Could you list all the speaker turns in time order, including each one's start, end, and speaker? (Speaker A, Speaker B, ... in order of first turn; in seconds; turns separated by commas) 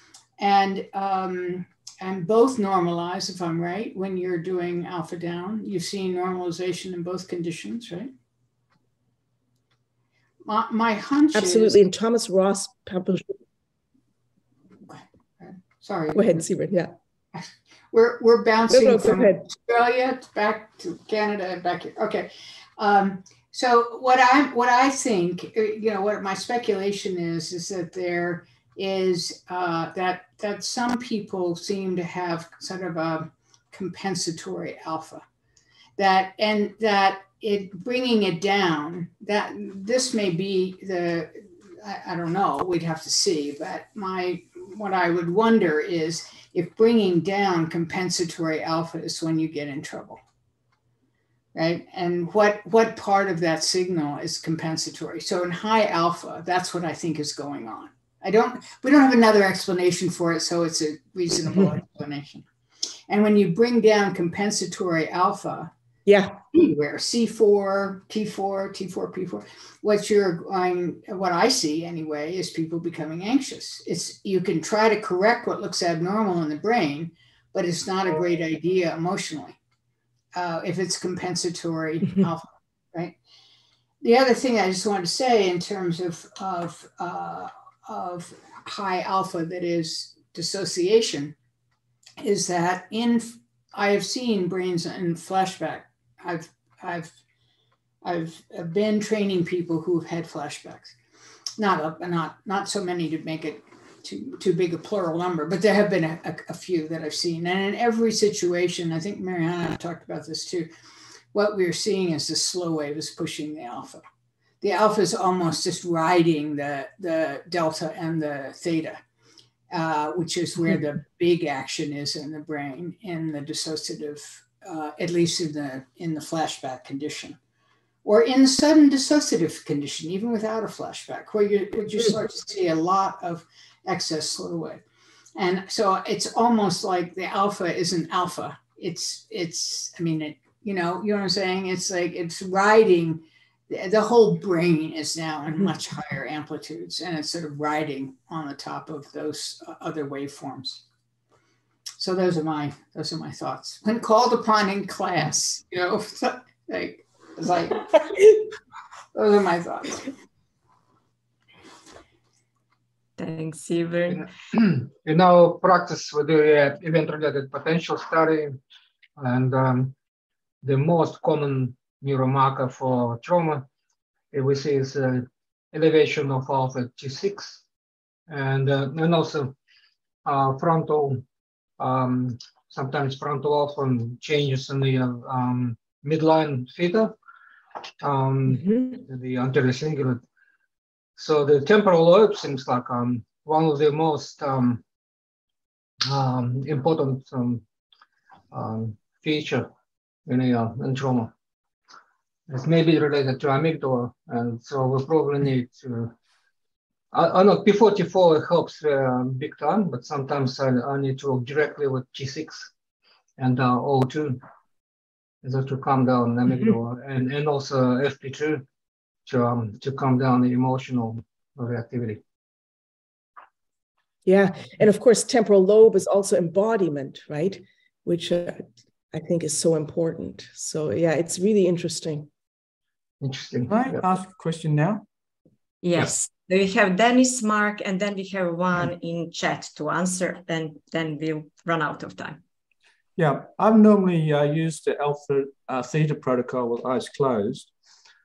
Speaker A: 0.4-8.1, Speaker A: 10.4-11.8, Speaker B: 11.3-13.4, Speaker A: 14.9-16.4, Speaker B: 16.1-16.9, Speaker A: 17.3-35.2, Speaker B: 18.7-19.5, Speaker A: 36.0-50.2, Speaker A: 51.5-62.4, Speaker A: 63.1-65.7, Speaker B: 66.1-66.4, Speaker A: 66.5-79.5, Speaker A: 80.3-83.2, Speaker A: 84.0-91.3, Speaker A: 92.2-97.1, Speaker A: 98.0-100.9, Speaker A: 101.6-110.7, Speaker A: 111.3-114.0, Speaker A: 114.6-119.0, Speaker A: 119.7-127.4, Speaker A: 128.0-134.8, Speaker A: 135.3-150.8, Speaker A: 152.0-158.3, Speaker A: 159.1-160.1, Speaker C: 163.2-164.2, Speaker D: 164.1-168.6, Speaker D: 169.2-169.9, Speaker D: 170.6-173.7, Speaker D: 174.3-177.6, Speaker D: 178.3-179.5, Speaker D: 180.2-181.2, Speaker D: 181.8-187.1, Speaker D: 188.0-190.2, Speaker D: 191.2-194.8, Speaker D: 196.1-197.6, Speaker D: 198.5-199.7, Speaker D: 200.2-201.3, Speaker D: 202.5-206.1, Speaker D: 207.1-212.7, Speaker D: 213.4-214.4, Speaker D: 215.4-218.7, Speaker D: 219.2-222.2, Speaker B: 224.2-232.3, Speaker D: 233.2-234.0, Speaker E: 233.7-235.0, Speaker C: 235.8-242.4, Speaker E: 243.2-247.7